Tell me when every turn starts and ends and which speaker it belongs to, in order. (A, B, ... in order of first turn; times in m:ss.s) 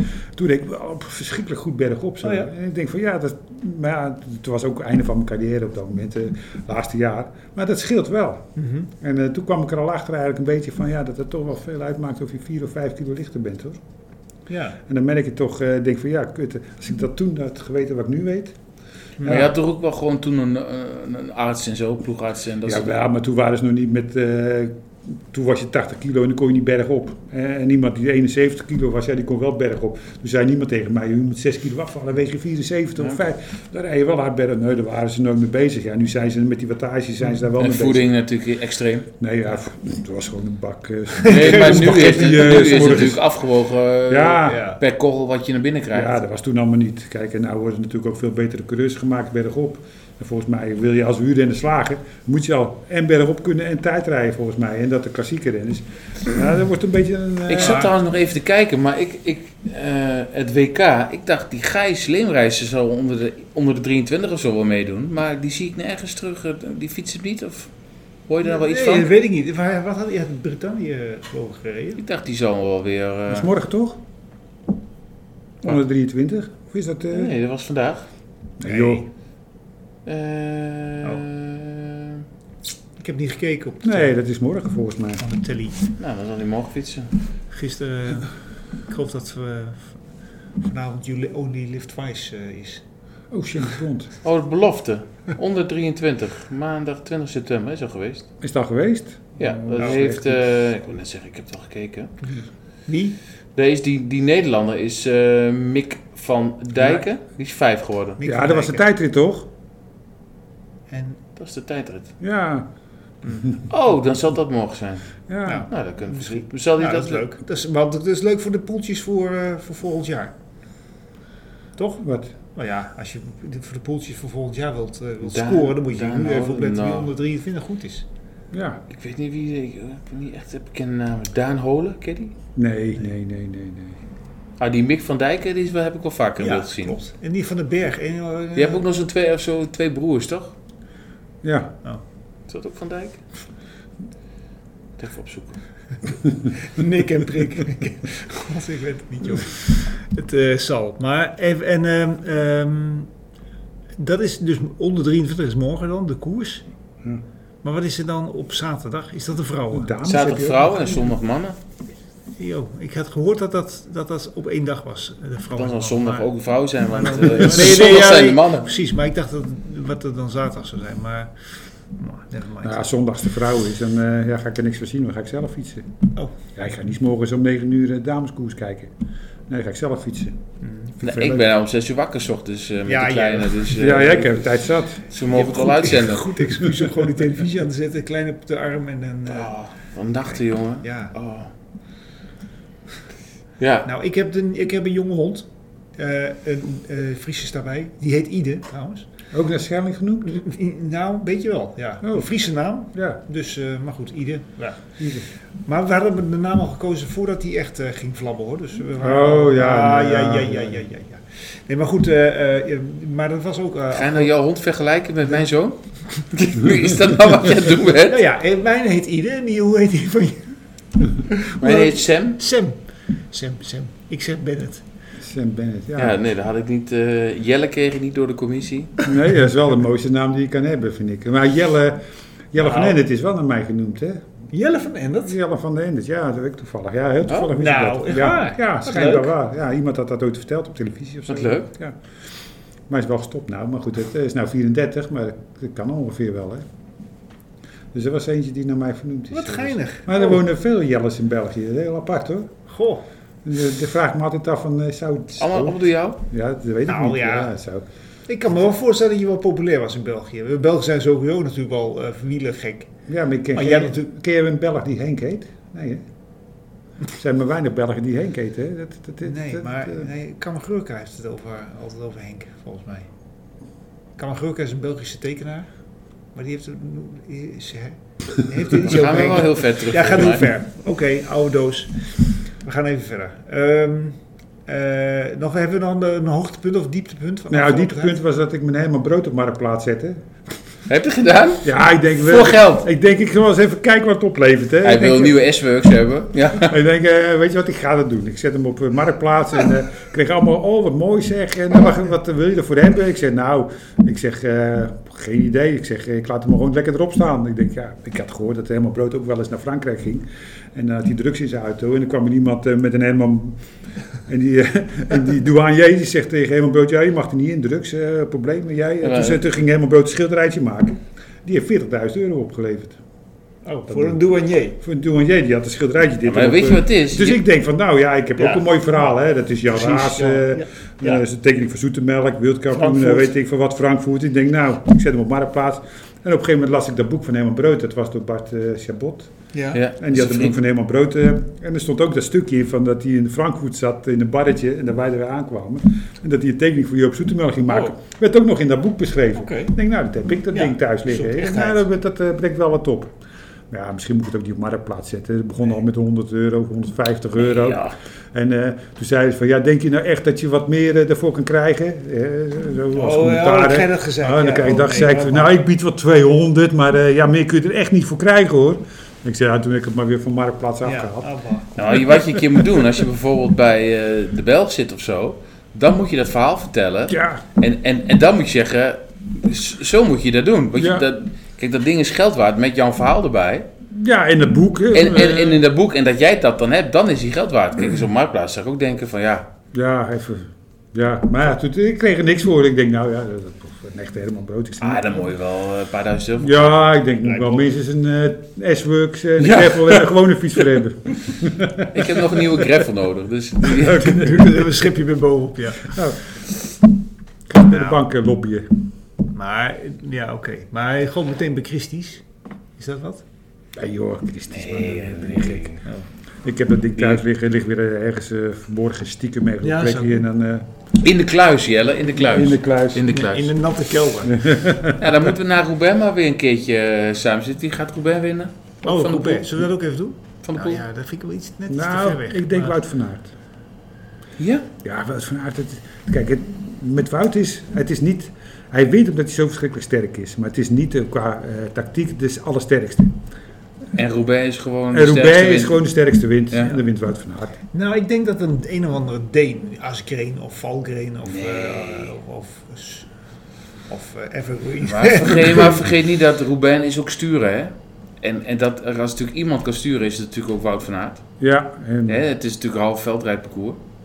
0:00.3-0:08.5 A
0:02.2-0:02.5 B
0:08.6-0:08.9 B
0:09.0-0:13.8 A
0:14.5-0:14.8 B
0:14.9-0:18.6 A
0:19.2-0:19.5 B
0:19.2-0:19.5 A
0:19.2-0:22.9 C
0:22.6-0:38.0 A
0:37.5-0:39.1 C
0:39.2-0:43.2 A
0:41.2-0:43.0 B
0:41.3-0:46.2 C
0:44.1-0:44.6 A
0:44.4-0:44.8 B
0:45.9-0:57.9 A
0:57.5-1:07.7 C
0:57.6-0:57.9 B
1:08.3-1:09.1 C
1:08.4-1:12.0 B
1:12.0-1:13.5 C
1:13.3-1:14.0 A
1:15.6-1:17.4 A
1:17.1-1:18.1 C
1:18.6-1:19.0 A
1:18.6-1:19.1 B
1:20.0-1:22.2 C
1:23.0-1:24.1 B
1:23.8-1:25.2 A
1:25.2-1:25.9 B
1:26.0-1:27.1 C
1:27.5-1:28.3 B
1:28.8-1:30.0 B
1:30.6-1:32.8 B
1:33.3-1:34.1 A
1:34.2-1:38.3 C
1:38.4-1:40.3 A
1:39.4-1:42.1 C
1:39.8-1:40.0 B
1:42.2-1:43.2 B
1:43.5-1:48.2 C
1:48.2-1:48.8 B
1:48.2-1:49.5 A
1:50.9-1:51.2 B
1:51.4-1:52.1 C
1:52.2-1:52.7 A
1:53.7-1:55.2 C
1:55.3-1:55.7 A
1:55.4-2:00.3 B
1:55.7-1:57.2 C
2:01.8-2:02.0 B
2:02.0-2:02.3 A
2:02.5-2:08.0 B
2:05.2-2:07.1 C
2:08.5-2:08.8 A
2:08.9-2:12.3 C
2:12.6-2:14.0 A
2:14.6-2:17.0 C
2:16.4-2:18.8 B
2:18.6-2:20.5 C
2:21.4-2:21.8 A
2:22.5-2:23.2 C
2:25.0-2:25.6 C
2:26.5-2:33.1 B
2:34.0-2:36.6 B
2:37.6-2:39.9 B
2:39.7-2:41.1 A
2:40.0-2:41.6 C
2:42.4-2:46.3 B
2:45.5-2:48.7 C
2:47.0-2:51.3 B
2:51.9-2:52.8 B
2:52.6-2:55.9 A
2:56.5-2:58.9 A
2:59.5-3:00.4 A
3:00.6-3:00.9 B
3:01.0-3:01.5 A
3:01.0-3:04.5 C
3:02.8-3:04.0 B
3:03.8-3:05.0 A
3:05.1-3:06.4 C
3:05.3-3:09.5 B
3:09.3-3:11.5 C
3:10.3-3:11.1 B
3:13.6-3:13.9 C
3:13.8-3:19.1 B
3:19.3-3:20.3 A
3:20.2-3:34.3 B
3:22.0-3:22.3 A
3:22.9-3:23.2 A
3:25.0-3:25.2 A
3:29.0-3:30.8 A
3:33.9-3:38.2 C
3:38.1-3:44.8 B
3:41.6-3:42.4 C
3:45.2-3:46.2 A
3:46.0-3:48.9 C
3:49.0-3:54.2 A
3:52.6-3:53.0 B
3:54.5-3:55.3 B
3:55.2-4:02.0 A
3:57.3-3:57.5 C
3:57.5-3:59.3 B
4:01.3-4:01.7 C
4:02.9-4:06.7 A
4:07.9-4:12.5 A
4:09.3-4:10.4 B
4:12.7-4:13.0 B
4:13.4-4:17.8 A
4:15.4-4:16.2 C
4:16.8-4:17.5 B
4:18.3-4:22.9 B
4:23.1-4:26.0 A
4:23.5-4:24.1 B
4:27.1-4:30.1 A
4:29.2-4:33.1 B
4:34.2-4:35.7 B
4:36.3-4:48.2 B
4:38.8-4:40.5 C
4:47.5-4:50.2 A
4:50.9-4:52.9 C
4:51.6-4:55.4 A
4:54.8-4:56.7 C
4:56.5-5:13.6 A
5:14.2-5:23.0 A
5:19.0-5:19.4 C
5:23.6-5:24.8 B
5:23.9-5:24.2 A
5:24.8-5:39.3 A
5:26.2-5:27.4 C
5:28.4-5:28.6 B
5:29.7-5:31.2 B
5:32.7-5:33.3 B
5:39.5-5:39.8 B
5:39.7-5:40.6 C
5:40.0-5:53.1 A
5:49.4-5:49.7 B
5:50.5-5:51.9 B
5:53.7-6:11.3 A
5:57.4-5:57.9 C
6:02.9-6:05.6 B
6:10.8-6:12.0 B
6:11.8-6:23.7 C
6:11.8-6:12.8 A
6:17.1-6:17.4 A
6:20.7-6:21.0 A
6:23.9-6:25.6 A
6:24.9-6:29.4 C
6:29.7-6:35.1 A
6:34.8-6:36.9 C
6:36.4-6:42.8 A
6:37.2-6:37.7 B
6:39.4-6:40.1 C
6:41.9-6:44.4 C
6:43.6-6:44.6 A
6:43.9-6:46.0 B
6:45.8-6:46.2 A
6:47.5-6:48.8 A
6:47.6-6:48.0 B
6:49.3-6:52.2 B
6:52.8-6:53.2 B
6:53.7-6:55.8 A
6:54.5-6:55.8 C
6:56.4-7:00.6 A
6:59.6-7:00.2 B
7:01.0-7:03.6 C
7:02.2-7:03.1 A
7:03.1-7:04.6 B
7:04.2-7:05.0 A
7:05.0-7:09.6 C
7:08.8-7:12.8 B
7:10.4-7:10.8 C
7:11.7-7:13.3 A
7:14.4-7:14.7 C
7:14.8-7:23.2 A
7:23.9-7:25.8 C
7:24.9-7:27.5 A
7:27.7-7:33.1 B
7:31.2-7:32.1 C
7:33.9-7:35.8 B
7:34.8-7:41.2 C
7:41.4-7:42.2 A
7:42.1-7:43.8 C